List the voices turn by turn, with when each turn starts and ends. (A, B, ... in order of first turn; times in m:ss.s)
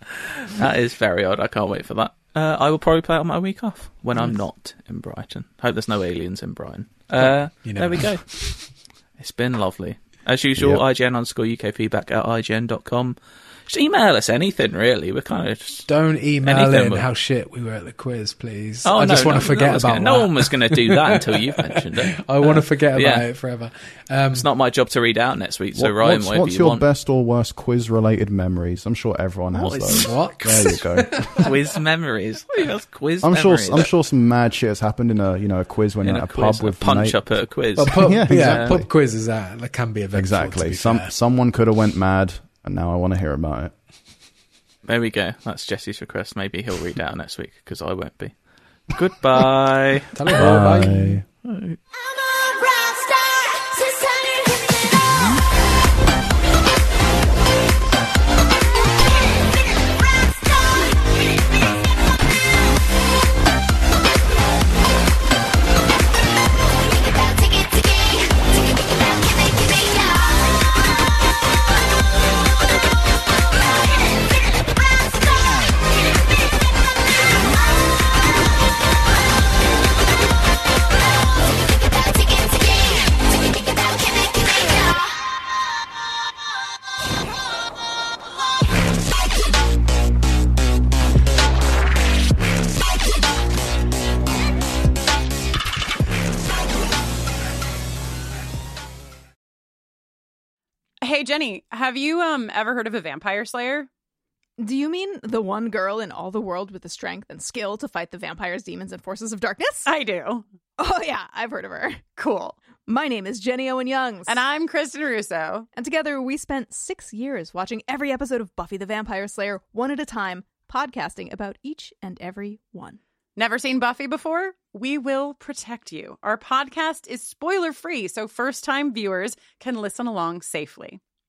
0:00.5-0:15.9 A
0:07.2-0:08.2 B
0:10.6-0:10.8 C
0:15.9-0:24.4 B
0:16.4-0:17.1 A
0:18.8-0:23.3 A
0:24.3-0:26.8 A
0:25.8-0:31.4 C
0:29.6-0:31.4 B
0:29.8-0:30.2 A
0:31.4-0:33.9 A
0:33.2-0:38.9 C
0:36.0-0:38.8 A
0:37.8-0:41.1 B
0:40.1-0:43.7 C
0:44.8-0:50.5 A
0:50.1-0:51.2 B
0:50.3-0:51.2 C
0:51.4-0:51.8 A
1:41.0-1:43.9 D
1:44.6-1:49.9 E
1:49.8-1:50.4 D
1:50.8-1:52.1 E
1:52.2-1:52.6 D
1:52.8-1:54.4 E
1:54.3-1:55.7 D
1:55.7-2:03.0 E
2:03.4-2:11.0 D